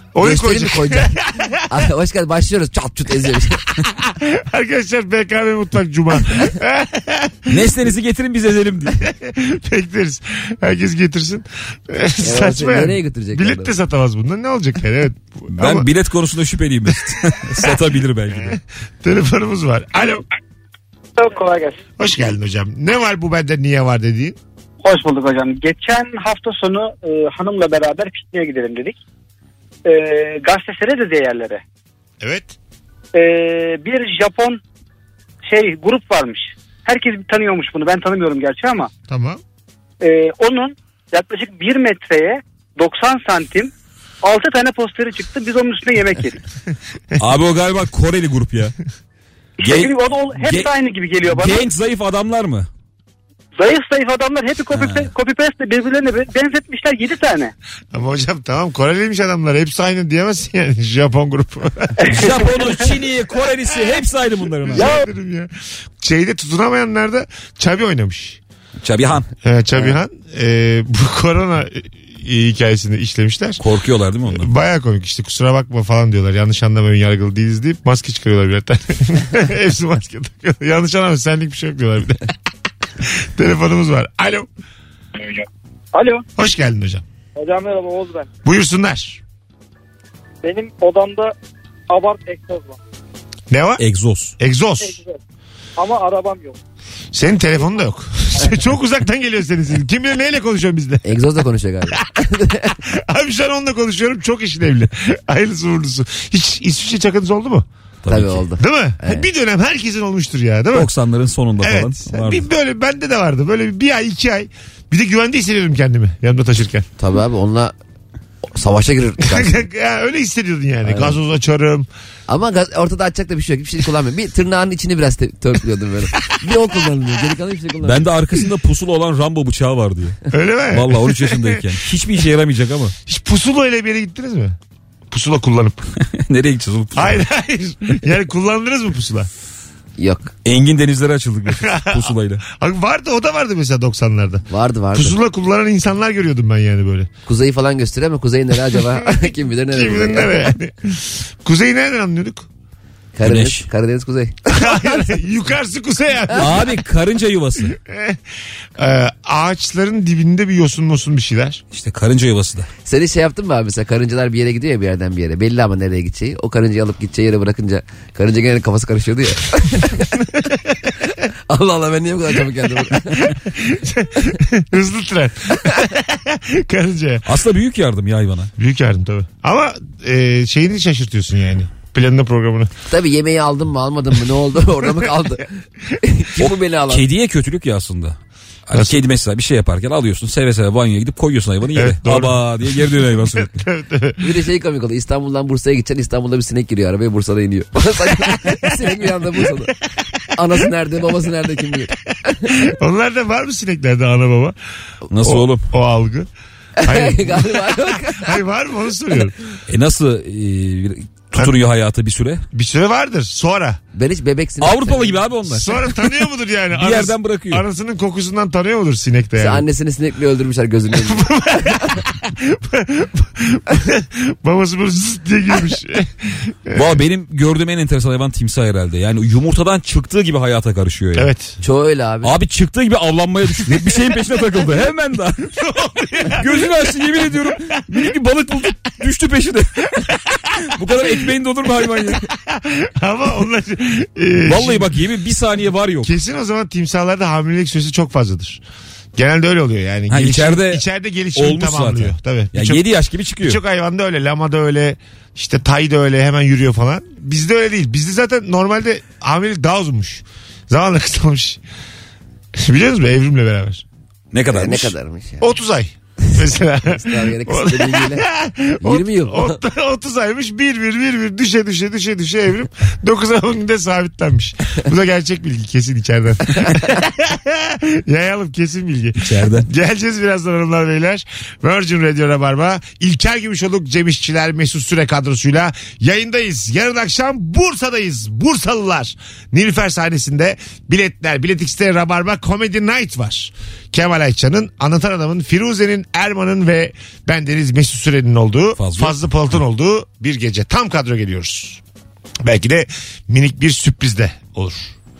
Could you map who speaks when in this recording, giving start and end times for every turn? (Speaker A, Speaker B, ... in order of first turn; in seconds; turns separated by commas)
Speaker A: 0.1-1.8, Speaker B: 0.2-3.6, Speaker A: 3.8-7.7, Speaker C: 7.5-9.0, Speaker A: 8.9-15.9, Speaker B: 12.2-13.7, Speaker C: 15.5-18.6, Speaker A: 18.4-20.2, Speaker D: 21.2-21.8, Speaker A: 22.0-24.4, Speaker E: 24.8-28.9, Speaker E: 29.8-31.6, Speaker A: 32.2-32.5, Speaker E: 33.1-34.6, Speaker E: 35.5-38.9, Speaker A: 39.1-39.4, Speaker E: 40.0-43.7, Speaker E: 44.2-46.4, Speaker C: 47.2-48.7, Speaker E: 49.6-51.6, Speaker C: 49.6-50.7, Speaker C: 51.2-52.7, Speaker E: 53.6-57.5, Speaker C: 54.7-55.1, Speaker A: 57.9-62.1, Speaker E: 62.0-62.5, Speaker C: 62.1-65.0, Speaker A: 64.7-68.4, Speaker C: 68.8-69.3, Speaker A: 69.4-73.6, Speaker C: 73.6-74.5, Speaker A: 74.3-82.3, Speaker A: 83.0-84.5, Speaker D: 85.9-86.2, Speaker A: 86.4-87.0, Speaker D: 87.3-88.3, Speaker A: 88.4-89.2, Speaker D: 90.4-91.3, Speaker D: 91.9-92.8, Speaker A: 93.5-93.8, Speaker C: 93.8-94.3, Speaker A: 94.4-95.0, Speaker D: 94.8-95.2, Speaker D: 95.8-96.5, Speaker A: 97.1-101.2, Speaker B: 101.0-102.7, Speaker A: 101.9-107.7, Speaker C: 108.0-108.4, Speaker B: 108.1-109.3, Speaker A: 108.6-110.9, Speaker C: 110.7-112.5, Speaker A: 111.6-116.8, Speaker B: 117.0-117.7, Speaker B: 118.5-119.7, Speaker A: 119.2-121.9, Speaker B: 120.8-121.2, Speaker B: 122.3-128.1, Speaker C: 127.8-130.2, Speaker A: 130.3-131.6, Speaker C: 130.7-132.9, Speaker A: 133.1-134.6, Speaker A: 135.1-135.9, Speaker C: 136.0-137.2, Speaker A: 136.9-139.3, Speaker B: 140.0-140.3, Speaker C: 140.4-142.4, Speaker A: 141.5-147.1, Speaker B: 144.5-145.2, Speaker B: 147.2-150.5, Speaker A: 149.0-152.4, Speaker B: 153.1-155.2, Speaker C: 153.2-153.7, Speaker A: 154.5-156.8, Speaker C: 156.4-157.8, Speaker A: 157.7-158.2, Speaker A: 158.8-161.6, Speaker C: 161.7-162.7, Speaker B: 162.8-170.3, Speaker B: 171.5-173.3, Speaker A: 173.0-177.2, Speaker C: 177.2-178.5, Speaker A: 178.6-182.7, Speaker B: 182.9-187.0, Speaker C: 186.4-193.7, Speaker A: 191.7-194.3, Speaker B: 194.2-199.7, Speaker A: 198.2-198.5, Speaker B: 200.3-202.5, Speaker A: 202.4-204.6, Speaker C: 205.1-205.7, Speaker A: 205.2-206.3, Speaker B: 206.8-208.4, Speaker A: 206.8-209.3, Speaker C: 209.7-212.4, Speaker A: 212.5-213.8, Speaker B: 213.9-215.6, Speaker C: 214.6-215.8, Speaker A: 215.5-219.7, Speaker C: 216.7-217.6, Speaker B: 219.4-222.0, Speaker A: 220.9-226.9, Speaker C: 226.7-231.3, Speaker A: 231.1-231.6, Speaker B: 231.6-232.3, Speaker C: 232.2-235.6, Speaker A: 235.5-236.7, Speaker C: 236.3-242.2, Speaker A: 242.3-244.9, Speaker C: 244.4-246.1, Speaker A: 246.0-248.6, Speaker A: 249.1-252.8, Speaker C: 250.1-253.6, Speaker A: 253.4-261.6, Speaker A: 262.6-263.8, Speaker C: 264.3-264.9, Speaker B: 264.5-265.5, Speaker A: 265.4-301.8, Speaker B: 266.8-268.2, Speaker B: 268.8-269.6, Speaker C: 279.2-279.7, Speaker C: 298.8-299.1, Speaker A: 302.4-304.9